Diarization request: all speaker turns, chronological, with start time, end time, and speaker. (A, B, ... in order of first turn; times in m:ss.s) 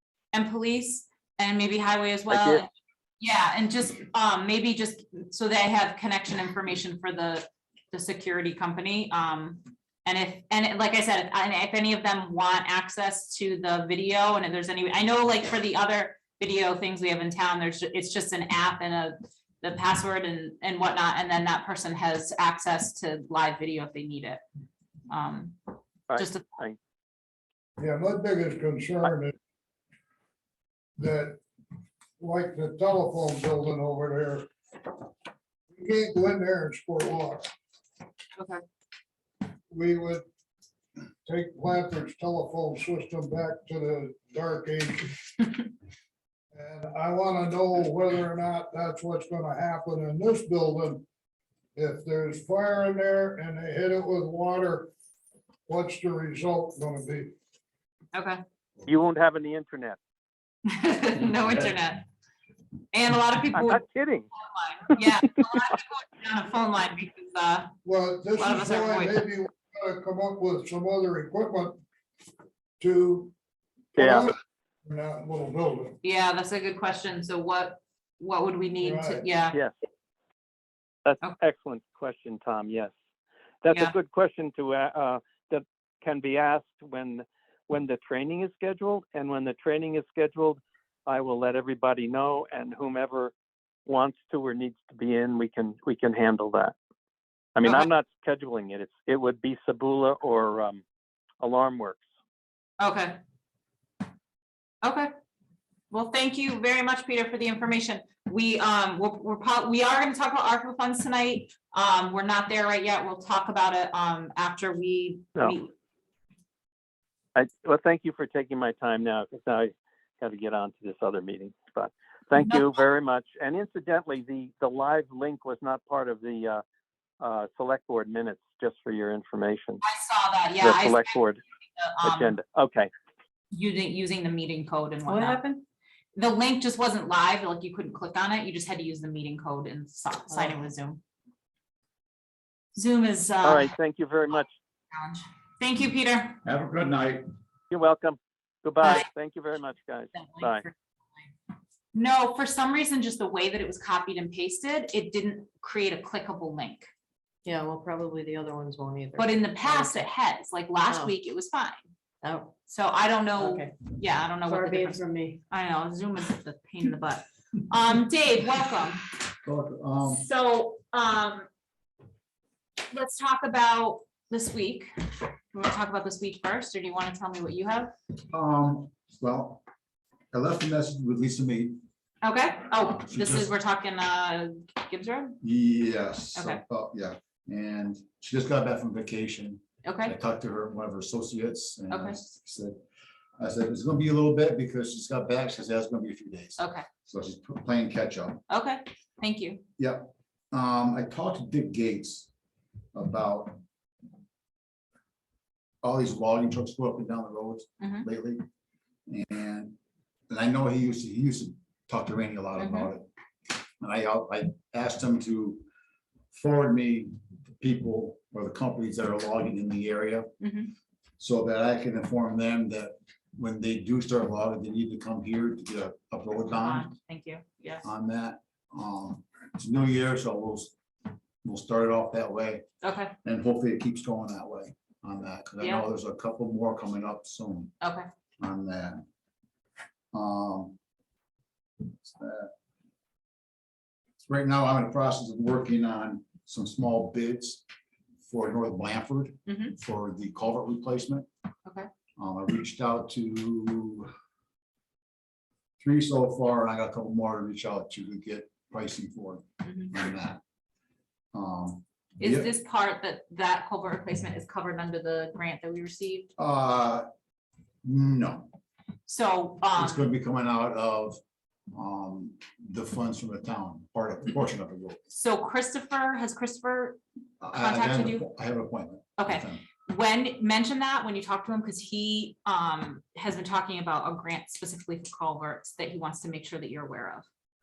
0:00.3-0:24.4 A
0:02.3-0:02.6 B
0:25.1-0:25.6 A
0:26.1-0:26.8 B
0:26.2-0:26.5 A
0:27.8-0:29.4 C
0:31.0-0:31.4 C
0:32.2-0:34.5 C
0:35.7-0:37.5 C
0:38.4-0:38.6 A
0:39.7-0:40.2 C
0:41.2-0:45.2 C
0:46.5-0:51.0 C
0:51.8-0:54.9 C
0:55.7-0:57.3 C
0:58.1-0:58.4 A
0:58.9-1:00.0 B
1:00.7-1:02.0 A
1:02.9-1:03.8 A
1:03.5-1:04.3 B
1:04.4-1:07.7 A
1:07.8-1:11.8 C
1:08.4-1:09.2 A
1:12.8-1:13.3 C
1:14.0-1:16.0 C
1:14.0-1:14.3 B
1:16.0-1:19.6 A
1:18.8-1:19.2 C
1:21.0-1:22.9 B
1:23.6-1:33.3 B
1:33.9-1:36.7 B
1:37.6-1:40.8 B
1:37.6-1:37.9 A
1:41.4-1:42.0 B
1:42.8-1:43.2 A
1:44.8-1:45.1 A
1:45.9-1:55.7 A
1:57.4-2:06.6 B
2:02.4-2:02.8 A
2:07.2-2:09.8 B
2:09.8-2:11.2 A
2:10.6-2:11.4 B
2:11.8-2:12.4 A
2:12.0-2:12.9 B
2:13.5-2:15.4 A
2:15.1-2:15.6 D
2:16.2-2:21.0 A
2:20.3-2:20.6 D
2:22.8-2:23.7 A
2:23.4-2:24.5 B
2:24.9-2:26.4 A
2:26.4-2:27.2 E
2:27.7-2:30.6 B
2:28.8-2:29.1 A
2:30.1-2:30.7 A
2:31.9-2:36.9 A
2:37.4-2:40.1 D
2:39.2-2:41.8 A
2:40.9-2:41.1 D
2:42.2-2:42.5 D
2:42.7-2:49.0 A
2:43.4-2:43.8 D
2:44.4-2:45.4 D
2:49.4-2:50.3 E
2:50.1-2:51.5 A
2:52.9-2:57.9 A
2:58.3-2:59.6 E
3:00.3-3:01.8 E
3:02.2-3:05.4 A
3:02.9-3:03.5 E
3:05.4-3:12.8 E
3:06.4-3:06.6 A
3:09.8-3:10.2 A
3:11.9-3:12.2 A
3:13.4-3:18.4 E
3:16.6-3:16.9 A
3:18.5-3:19.6 A
3:19.8-3:22.3 E
3:22.9-3:23.6 E
3:25.8-3:28.4 E
3:27.8-3:28.1 A
3:29.1-3:29.8 E
3:30.3-3:33.1 E
3:32.6-3:32.9 A
3:33.8-3:35.7 E
3:36.3-3:40.3 E
3:40.4-3:40.7 A
3:41.2-3:46.9 E
3:46.4-3:47.8 A
3:47.8-3:50.7 E
3:51.4-3:52.6 E
3:52.8-3:53.2 A
3:53.2-3:57.7 E
3:55.6-3:55.8 A
3:57.8-3:58.1 A
3:58.4-3:59.0 E
4:00.1-4:00.8 E
4:01.9-4:02.5 E
4:04.2-4:07.6 E
4:08.2-4:11.3 E
4:09.5-4:09.8 A
4:12.2-4:14.1 E
4:15.8-4:20.4 E
4:19.6-4:19.9 A
4:21.3-4:22.5 E
4:22.2-4:26.3 A
4:26.4-4:27.0 E
4:27.8-4:28.5 E
4:29.1-4:30.1 A
4:29.8-4:31.2 E
4:31.7-4:35.0 E
4:35.1-4:37.0 A
4:37.4-4:39.6 E
4:37.5-4:38.3 A
4:39.2-4:47.3 A